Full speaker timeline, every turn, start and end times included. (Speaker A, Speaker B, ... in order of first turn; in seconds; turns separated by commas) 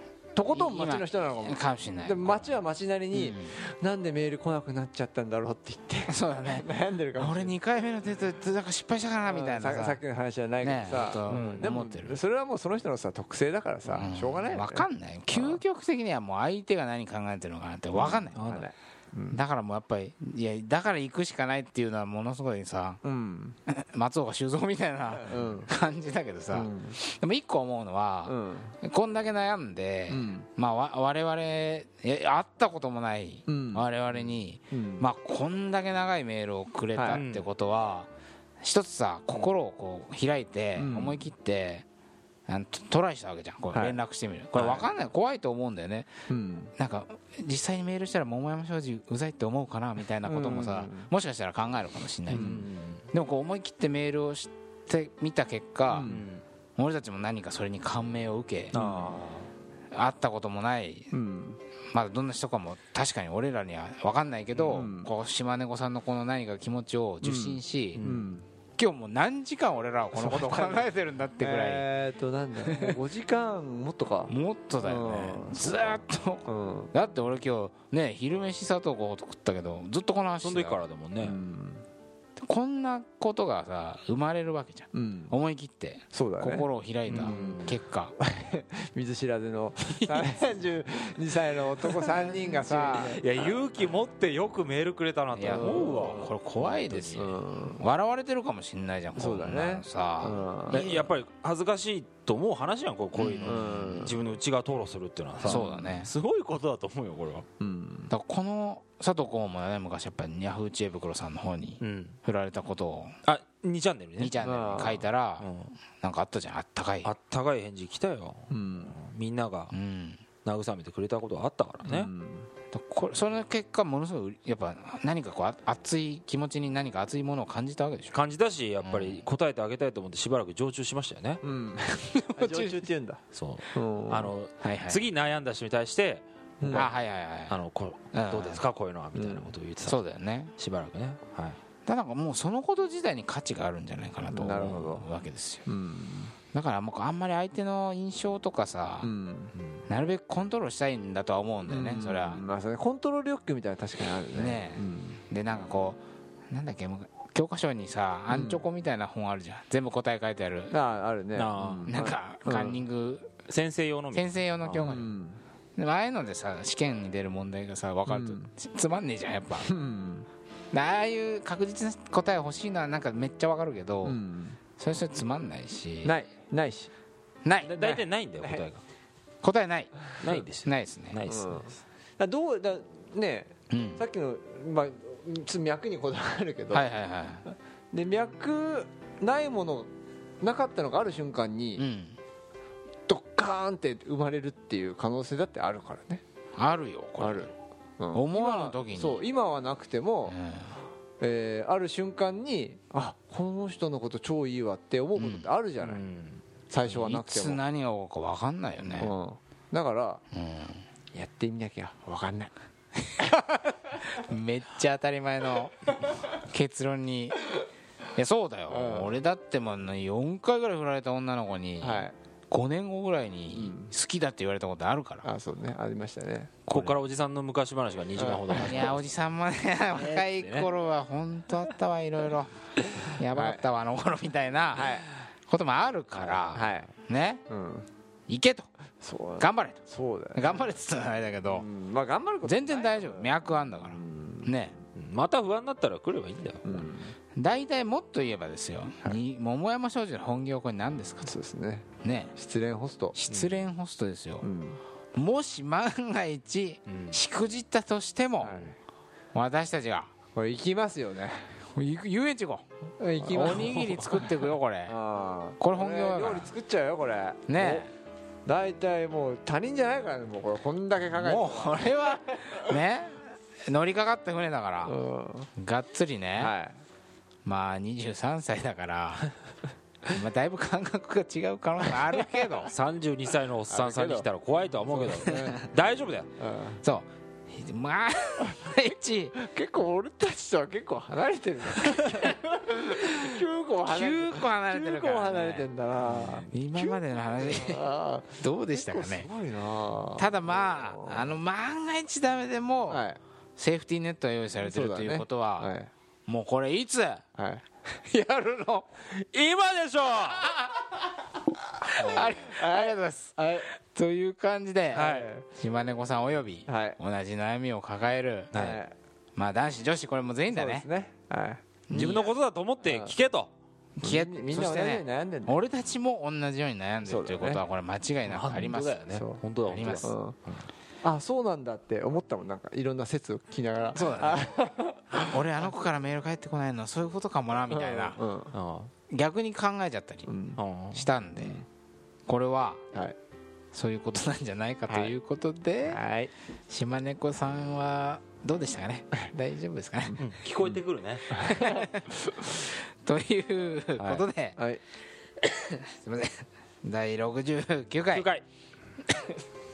Speaker A: 0.3-7.6, Speaker B: 0.5-2.4, Speaker B: 3.1-3.5, Speaker B: 6.1-10.0, Speaker A: 9.2-15.6, Speaker B: 10.6-12.2, Speaker C: 11.3-11.7, Speaker B: 13.9-18.7, Speaker C: 17.9-18.6, Speaker A: 18.4-19.4, Speaker B: 19.3-23.0, Speaker A: 23.0-23.6, Speaker B: 23.7-38.1, Speaker A: 25.1-25.7, Speaker A: 26.5-27.0, Speaker A: 28.2-28.8, Speaker A: 30.1-30.5, Speaker A: 33.5-33.9, Speaker A: 34.7-35.1, Speaker A: 36.9-37.2, Speaker C: 37.1-37.5, Speaker B: 38.6-41.9, Speaker A: 40.8-41.3, Speaker B: 42.5-46.1, Speaker A: 43.7-44.0, Speaker C: 44.5-44.9, Speaker A: 46.3-46.7, Speaker B: 46.8-52.6, Speaker A: 50.2-51.1, Speaker C: 52.3-53.0, Speaker A: 52.3-52.6, Speaker B: 53.1-56.2, Speaker A: 55.9-56.2, Speaker C: 56.0-56.4, Speaker B: 56.8-58.8, Speaker C: 58.7-59.4, Speaker A: 58.7-59.5, Speaker B: 59.9-61.1, Speaker A: 61.1-61.6, Speaker B: 61.9-68.1, Speaker A: 64.6-65.1, Speaker A: 67.2-68.4, Speaker C: 67.9-68.3, Speaker B: 68.8-71.9, Speaker A: 70.1-76.9, Speaker B: 72.6-73.0, Speaker B: 74.3-80.8, Speaker C: 80.4-81.4, Speaker A: 81.2-81.8, Speaker B: 82.4-88.1, Speaker A: 84.9-85.3, Speaker A: 86.1-93.2, Speaker C: 87.1-87.8, Speaker B: 89.8-90.4, Speaker B: 92.7-93.1, Speaker C: 92.9-97.2, Speaker B: 95.3-101.1, Speaker A: 95.4-96.3, Speaker A: 97.1-97.8, Speaker A: 99.2-100.8, Speaker C: 100.7-107.5, Speaker B: 103.1-104.1, Speaker A: 103.4-104.2, Speaker A: 105.4-106.0, Speaker B: 105.4-106.1, Speaker A: 107.6-108.1, Speaker B: 108.1-113.2, Speaker C: 111.8-112.2, Speaker C: 113.2-114.4, Speaker B: 114.2-117.1, Speaker A: 114.4-115.0, Speaker C: 115.4-115.7, Speaker C: 117.0-119.7, Speaker A: 118.5-119.0, Speaker B: 119.7-120.2, Speaker C: 120.4-122.1, Speaker A: 121.8-122.5, Speaker B: 122.7-128.2, Speaker C: 128.1-131.4, Speaker B: 128.8-129.2, Speaker A: 131.4-133.2, Speaker B: 132.2-132.8, Speaker C: 133.3-136.9, Speaker A: 133.7-134.3, Speaker B: 134.6-135.0, Speaker A: 136.6-136.9, Speaker B: 136.7-137.6, Speaker C: 137.5-140.0, Speaker B: 138.1-138.6, Speaker A: 139.1-139.6, Speaker B: 139.8-140.5, Speaker C: 140.6-141.6, Speaker B: 141.8-145.6, Speaker A: 144.3-145.1, Speaker A: 145.7-146.3, Speaker B: 146.5-149.1, Speaker A: 149.0-149.5, Speaker B: 149.9-152.4, Speaker A: 151.7-155.2, Speaker B: 154.3-160.7, Speaker A: 158.3-158.6, Speaker A: 160.7-162.8, Speaker C: 161.3-162.0, Speaker B: 161.9-163.4, Speaker C: 163.5-164.3, Speaker B: 164.1-165.1, Speaker A: 164.7-165.4, Speaker B: 165.8-169.7, Speaker A: 168.1-168.5, Speaker A: 169.6-170.3, Speaker B: 170.7-174.2, Speaker A: 174.0-174.6, Speaker B: 174.8-176.1, Speaker A: 176.0-176.9, Speaker B: 177.4-177.8, Speaker C: 177.6-178.8, Speaker A: 177.7-178.6, Speaker B: 179.4-180.1, Speaker C: 180.2-181.7, Speaker B: 180.6-181.2, Speaker A: 181.2-186.9, Speaker B: 183.7-184.0, Speaker B: 186.7-187.4, Speaker A: 187.9-189.9, Speaker A: 190.4-191.8, Speaker B: 191.8-192.2, Speaker A: 193.1-196.2, Speaker B: 196.6-197.5, Speaker A: 197.2-200.4, Speaker B: 198.1-199.2, Speaker B: 200.3-200.7, Speaker A: 201.2-206.0, Speaker B: 205.2-205.5, Speaker C: 205.8-206.4, Speaker A: 206.7-207.6, Speaker B: 206.8-209.1, Speaker A: 209.0-210.2, Speaker B: 210.3-210.8, Speaker A: 211.1-212.5, Speaker B: 213.1-217.6, Speaker B: 218.1-225.3, Speaker A: 218.7-219.2, Speaker A: 221.8-222.1, Speaker A: 223.5-223.9, Speaker A: 225.2-226.5, Speaker C: 226.7-229.1, Speaker B: 226.7-227.0, Speaker A: 228.1-228.9, Speaker B: 228.5-237.4, Speaker C: 229.9-230.7, Speaker A: 233.3-233.6, Speaker A: 234.7-235.1, Speaker C: 236.1-236.7, Speaker A: 236.5-236.9, Speaker A: 237.5-237.9, Speaker B: 238.3-238.7, Speaker A: 239.0-240.7, Speaker B: 239.4-239.8, Speaker B: 240.3-241.7, Speaker A: 241.4-243.3, Speaker B: 242.4-244.7, Speaker A: 243.8-244.6, Speaker C: 244.9-246.9, Speaker A: 246.6-247.2, Speaker B: 247.3-251.3, Speaker A: 251.2-253.2, Speaker B: 252.0-252.3, Speaker B: 253.1-254.4, Speaker C: 253.3-253.6, Speaker A: 254.4-254.8, Speaker B: 255.1-258.7, Speaker C: 256.9-257.2, Speaker A: 258.4-258.8, Speaker B: 259.3-260.1, Speaker A: 260.3-261.5, Speaker B: 261.7-262.6, Speaker A: 263.0-267.9, Speaker B: 263.2-264.9, Speaker B: 265.6-266.5, Speaker B: 267.5-267.9, Speaker A: 268.4-272.5, Speaker B: 271.2-275.0, Speaker A: 274.8-275.5, Speaker B: 275.6-276.5, Speaker A: 276.4-276.8, Speaker B: 277.4-279.3, Speaker B: 280.1-282.7, Speaker A: 282.1-282.5, Speaker C: 282.6-286.3, Speaker A: 283.7-284.3, Speaker A: 284.9-285.6, Speaker A: 286.4-286.8, Speaker B: 286.8-289.3, Speaker A: 289.4-301.4, Speaker B: 293.9-299.3, Speaker C: 296.1-296.4, Speaker B: 300.2-303.0, Speaker A: 302.9-303.2, Speaker B: 303.6-305.7, Speaker A: 304.6-305.9, Speaker B: 306.3-307.2, Speaker A: 307.4-307.6, Speaker B: 307.9-308.9, Speaker C: 309.1-310.6, Speaker B: 311.9-318.6, Speaker A: 311.9-313.7, Speaker A: 314.9-315.4, Speaker C: 314.9-315.3, Speaker A: 316.7-317.0, Speaker C: 318.5-318.8, Speaker A: 318.5-318.9, Speaker B: 319.4-320.9, Speaker A: 320.5-323.1, Speaker B: 321.9-322.2, Speaker C: 321.9-323.5, Speaker B: 324.0-329.0, Speaker A: 324.0-325.6, Speaker A: 327.0-327.6, Speaker C: 328.2-330.6, Speaker A: 329.1-329.4, Speaker B: 329.6-330.1, Speaker A: 330.0-330.4, Speaker A: 331.0-335.4, Speaker B: 333.9-334.5, Speaker B: 335.2-338.2, Speaker A: 337.7-338.5, Speaker C: 338.5-338.9, Speaker B: 339.1-340.3, Speaker A: 340.3-340.6, Speaker C: 340.6-341.1, Speaker B: 340.9-341.6, Speaker B: 342.3-342.8, Speaker B: 343.7-346.0, Speaker A: 344.9-345.1, Speaker A: 345.9-346.3, Speaker B: 346.7-350.2, Speaker C: 350.2-351.4, Speaker B: 351.3-354.6, Speaker A: 351.4-351.8, Speaker C: 353.9-354.3, Speaker B: 355.5-358.3, Speaker C: 358.1-358.4